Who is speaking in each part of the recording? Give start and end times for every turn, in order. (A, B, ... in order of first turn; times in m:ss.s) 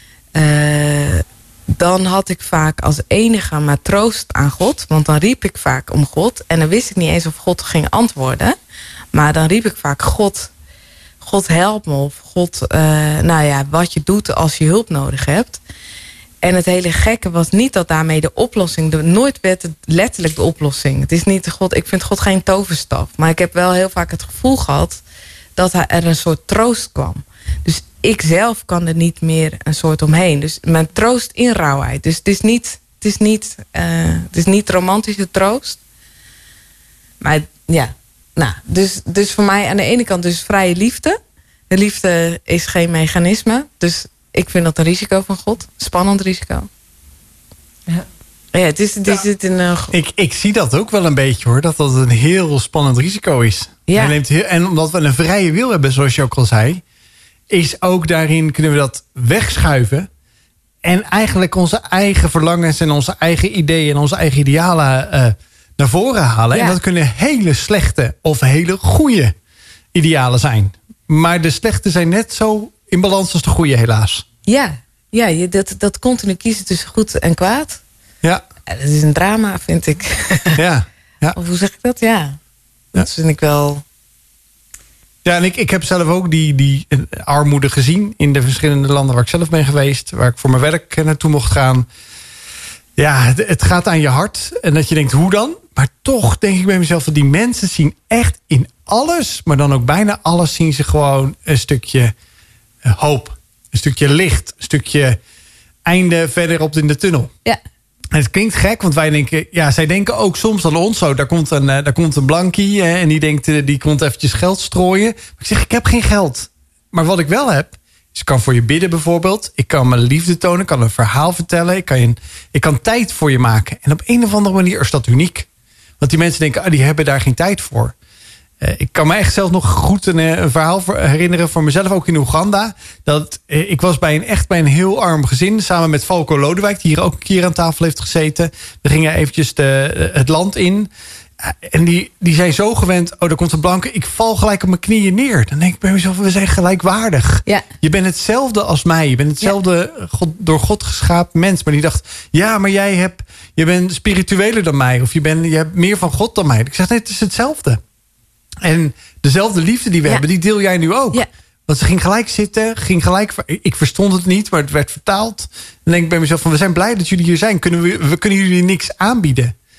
0:00.3-0:08.6 A
0:09.1-0:10.5 A
0:11.2-0:15.6 A
0:16.4-0:25.0 A
0:25.6-0:35.8 A
0:37.2-0:41.2 A
0:41.7-0:46.7 A
0:48.5-0:49.9 A
0:49.9-0:56.8 B
0:53.9-0:54.1 A
0:57.5-1:00.1 B
1:00.8-1:09.3 B
1:09.9-1:14.2 B
1:14.4-1:17.8 A
1:18.7-1:20.6 A
1:20.5-1:21.4 B
1:21.3-1:22.4 A
1:23.0-1:23.8 A
1:25.2-1:31.9 B
1:33.0-1:42.1 B
1:42.8-1:45.2 B
1:45.8-1:47.3 B
1:48.1-2:05.5 B
2:06.0-2:07.9 B
2:08.6-2:20.9 B
2:21.4-2:37.8 B
2:38.6-2:49.5 B